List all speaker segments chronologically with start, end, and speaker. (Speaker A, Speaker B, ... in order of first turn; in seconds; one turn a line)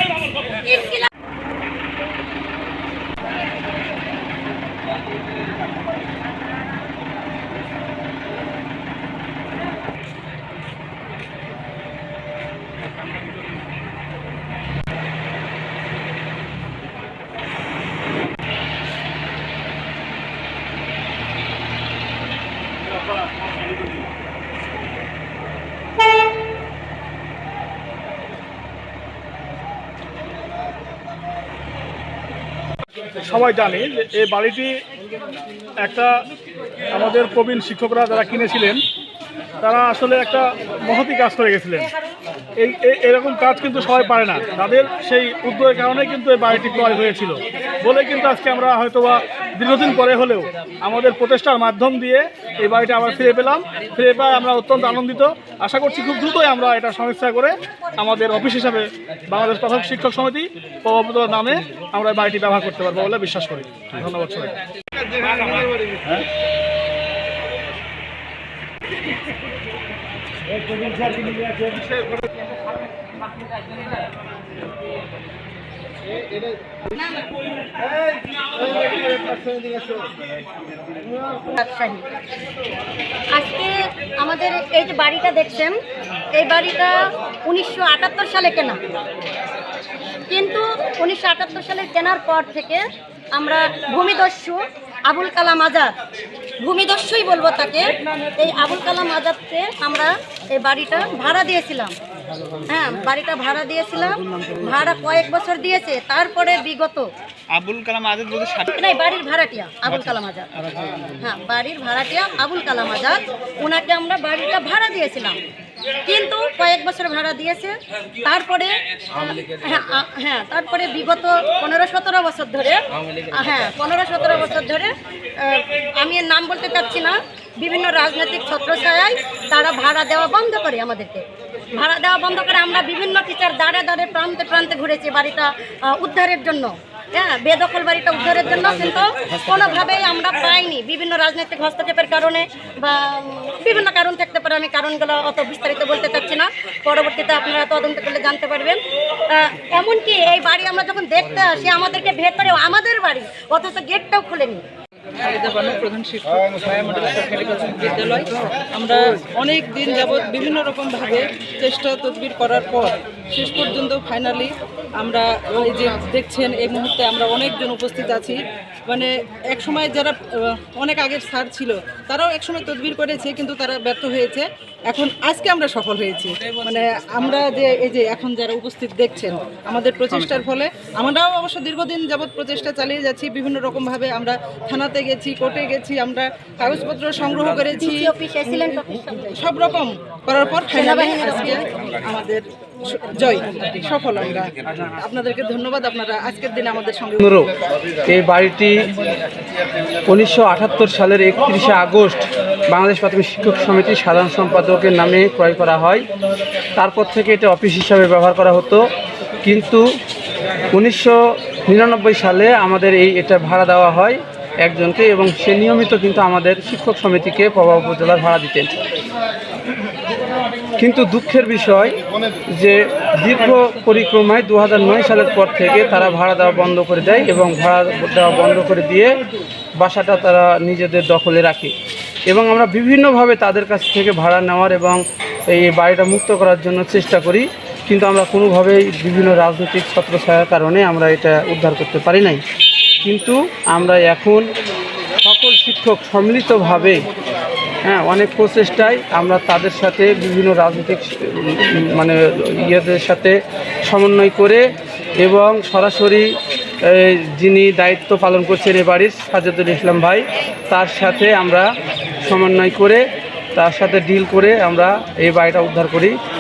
Speaker A: 0.6-1.0
Speaker B: 33.2-34.8
Speaker B: 35.8-36.1
Speaker B: 36.9-38.8
Speaker B: 39.6-41.9
Speaker B: 42.6-64.6
Speaker B: 65.1-65.7
Speaker A: 81.5-82.0
Speaker A: 83.3-85.8
Speaker A: 86.4-88.8
Speaker A: 90.3-92.8
Speaker A: 93.3-95.9
Speaker A: 96.6-101.9
Speaker A: 102.7-107.1
Speaker B: 107.5-108.7
Speaker A: 108.6-110.5
Speaker A: 111.1-115.4
Speaker A: 116.0-154.6
Speaker C: 155.3-188.7
Speaker A: 187.8-189.4
Speaker C: 189.4-197.2
Speaker A: 190.7-191.6
Speaker D: 197.2-197.5
Speaker D: 198.0-198.9
Speaker D: 200.1-206.0
Speaker D: 206.8-208.8
Speaker D: 209.4-209.8
Speaker D: 210.7-218.7
Speaker D: 220.8-221.9
Speaker D: 222.5-229.1
Speaker D: 229.8-231.7
Speaker D: 232.3-242.4
Speaker D: 243.0-244.5
Speaker D: 245.2-247.1
Speaker D: 247.8-254.6
Speaker D: 255.2-261.7
Speaker D: 262.2-263.0
Speaker D: 263.6-266.1